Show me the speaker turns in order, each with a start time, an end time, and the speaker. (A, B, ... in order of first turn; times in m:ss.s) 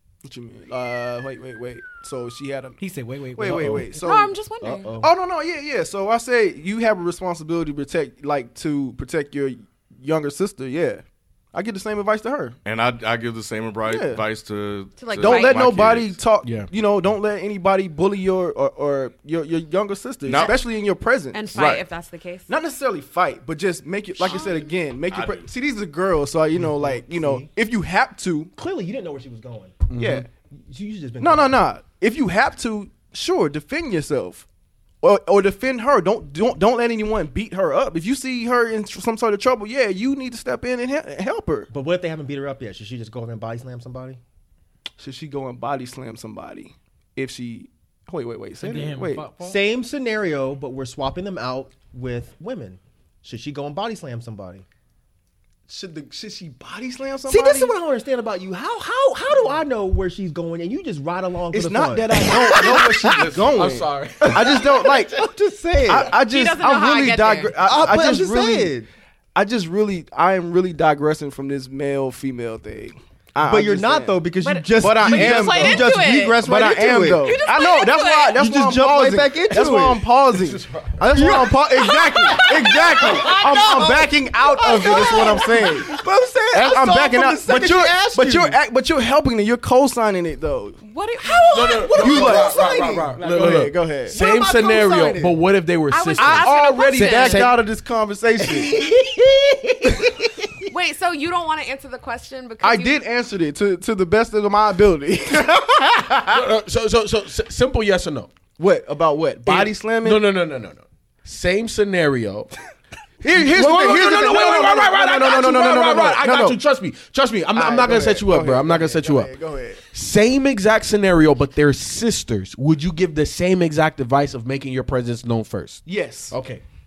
0:00.2-0:02.8 A
0:02.8-0:03.9 B
0:03.3-0:04.4 A
0:03.5-0:03.8 C
0:04.0-0:04.9 D
0:04.6-0:05.1 C
0:04.9-0:12.6 A
0:12.6-0:16.2 E
0:13.8-0:14.2 A
0:15.0-0:15.6 D
0:15.2-0:21.5 A
0:16.4-0:16.7 F
0:20.2-0:20.6 E
0:21.3-0:22.5 D
0:21.5-0:21.8 E
0:22.5-0:28.5 A
0:24.3-0:24.6 D
0:25.1-0:25.4 E
0:26.6-0:27.4 C
0:28.6-0:29.9 C
0:29.9-0:30.3 F
0:30.0-0:30.3 A
0:30.6-0:31.6 C
0:31.2-0:34.4 A
0:35.0-0:41.7 A
0:41.7-0:44.2 C
0:45.0-0:49.3 A
0:48.6-0:49.6 B
0:49.4-0:54.6 C
0:55.7-0:57.7 A
0:57.3-1:03.2 C
1:01.5-1:05.1 A
1:02.4-1:02.8 F
1:03.0-1:03.7 E
1:03.5-1:05.1 F
1:04.4-1:06.1 C
1:05.9-1:08.7 A
1:06.3-1:07.5 D
1:07.6-1:08.9 C
1:09.3-1:14.1 A
1:13.4-1:17.4 C
1:14.4-1:16.4 D
1:14.8-1:30.8 A
1:17.2-1:18.4 D
1:18.4-1:20.0 C
1:20.3-1:21.5 F
1:21.1-1:28.6 C
1:21.8-1:25.9 D
1:30.8-1:32.6 D
1:31.5-1:37.6 F
1:31.5-1:33.2 C
1:32.0-1:34.1 A
1:34.1-1:35.4 C
1:35.9-1:37.5 D
1:36.2-1:38.8 A
1:38.4-1:40.7 C
1:40.7-1:43.0 D
1:42.6-1:46.2 A
1:46.2-1:48.3 F
1:48.6-1:50.3 A
1:49.4-1:52.5 F
1:53.2-1:56.6 A
1:53.2-1:59.3 F
1:57.5-1:59.8 A
1:59.9-2:06.6 F
2:05.8-2:06.3 A